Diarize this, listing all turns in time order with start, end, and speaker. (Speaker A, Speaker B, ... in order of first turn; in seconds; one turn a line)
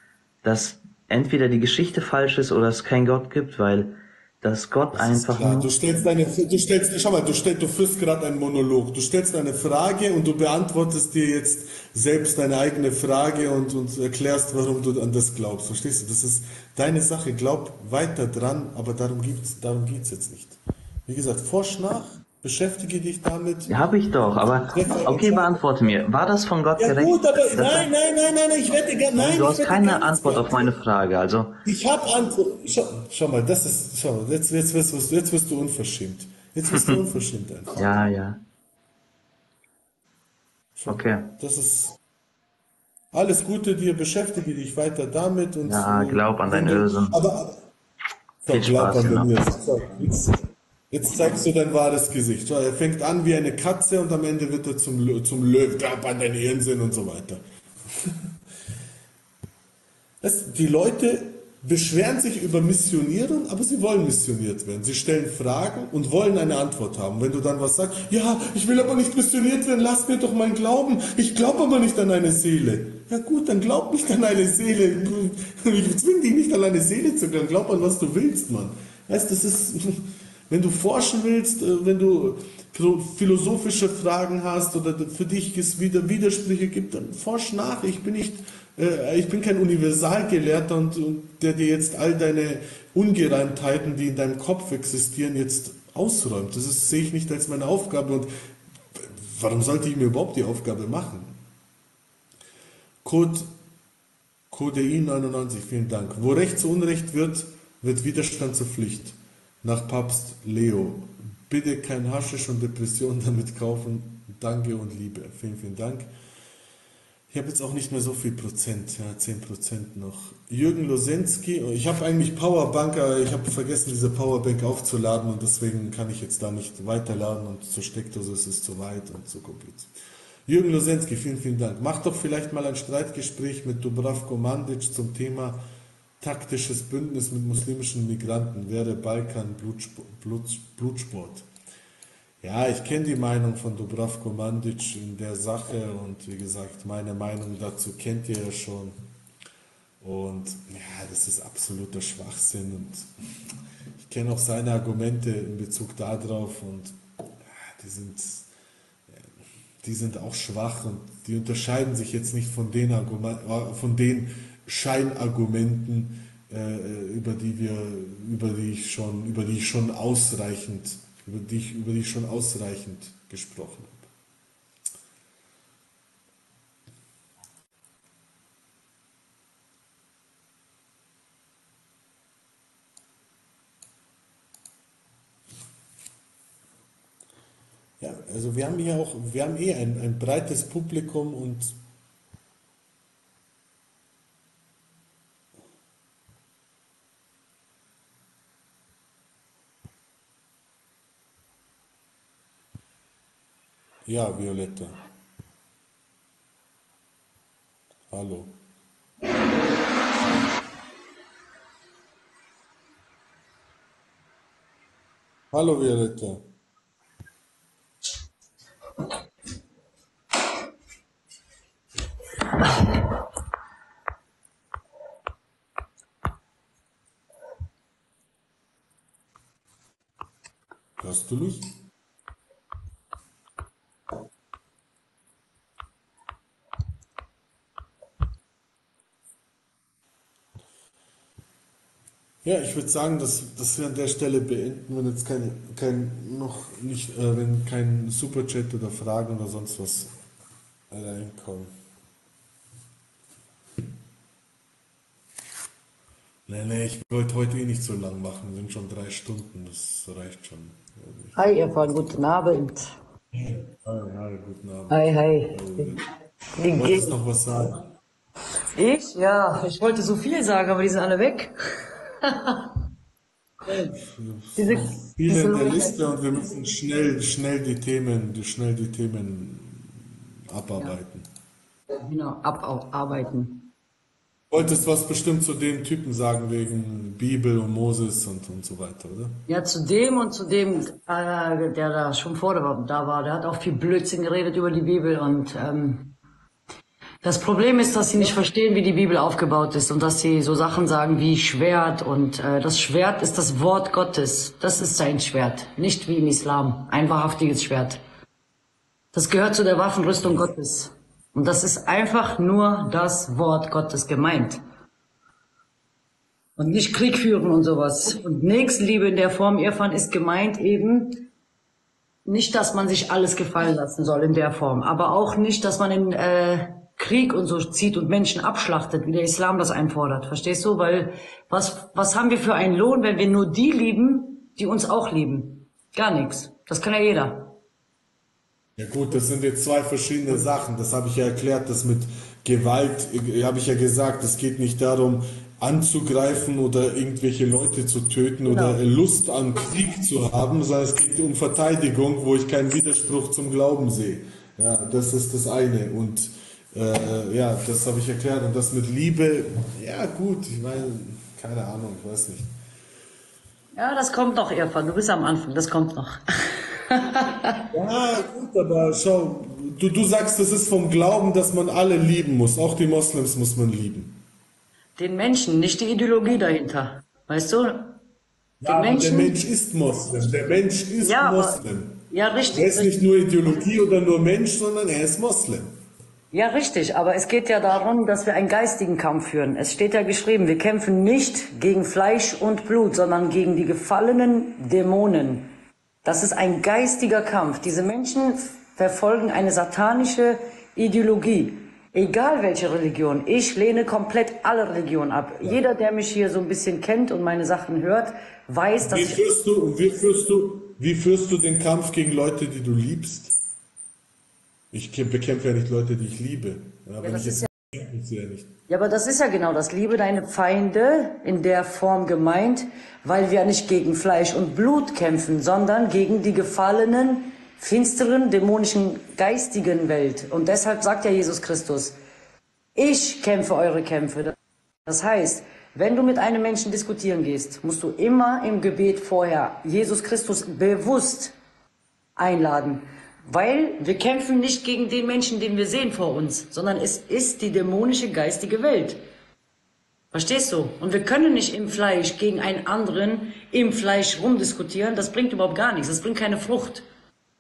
Speaker A: 0.4-5.7
Speaker B: 4.9-25.6
Speaker A: 23.7-27.9
Speaker B: 26.8-30.7
Speaker A: 29.1-31.6
Speaker B: 31.6-38.1
Speaker A: 36.7-37.0
Speaker A: 37.8-38.4
Speaker B: 40.8-42.0
Speaker A: 40.9-41.3
Speaker B: 43.1-47.5
Speaker A: 45.6-47.2
Speaker B: 48.4-50.4
Speaker A: 48.5-49.3
Speaker B: 50.9-57.4
Speaker B: 60.2-98.3
Speaker B: 98.9-101.4
Speaker B: 103.0-103.5
Speaker B: 104.5-116.1
Speaker B: 117.3-129.9
Speaker B: 130.5-135.6
Speaker B: 136.2-141.4
Speaker B: 142.4-149.0
Speaker B: 150.0-153.1
Speaker B: 154.0-158.5
Speaker B: 159.8-174.1
Speaker B: 188.0-191.7
Speaker B: 204.1-205.0
Speaker B: 208.1-208.5
Speaker B: 215.5-216.4
Speaker B: 231.0-231.7
Speaker B: 242.4-250.1
Speaker B: 250.9-251.7
Speaker B: 256.5-262.2
Speaker C: 261.3-263.0
Speaker B: 263.3-266.0
Speaker C: 264.9-266.0
Speaker C: 266.6-267.2
Speaker B: 266.7-267.8
Speaker C: 268.7-271.6
Speaker C: 272.2-272.7
Speaker B: 273.7-281.2
Speaker C: 274.6-276.0
Speaker C: 282.0-283.7
Speaker B: 284.5-289.4
Speaker C: 289.5-296.1
Speaker C: 297.2-308.0
Speaker C: 309.1-314.6
Speaker C: 316.6-321.3
Speaker C: 322.2-337.6
Speaker B: 338.8-362.5
Speaker C: 348.5-348.8
Speaker C: 363.7-367.6
Speaker B: 367.7-374.2
Speaker C: 375.0-378.0
Speaker B: 378.6-385.7
Speaker C: 378.6-379.4
Speaker C: 381.0-381.6
Speaker C: 382.1-382.9
Speaker C: 386.3-395.5
Speaker C: 396.0-409.2
Speaker B: 408.8-413.3
Speaker B: 414.7-418.5
Speaker C: 417.0-417.5
Speaker C: 418.7-431.9
Speaker C: 432.8-434.3
Speaker C: 434.9-441.3
Speaker C: 442.2-449.0
Speaker C: 450.1-456.9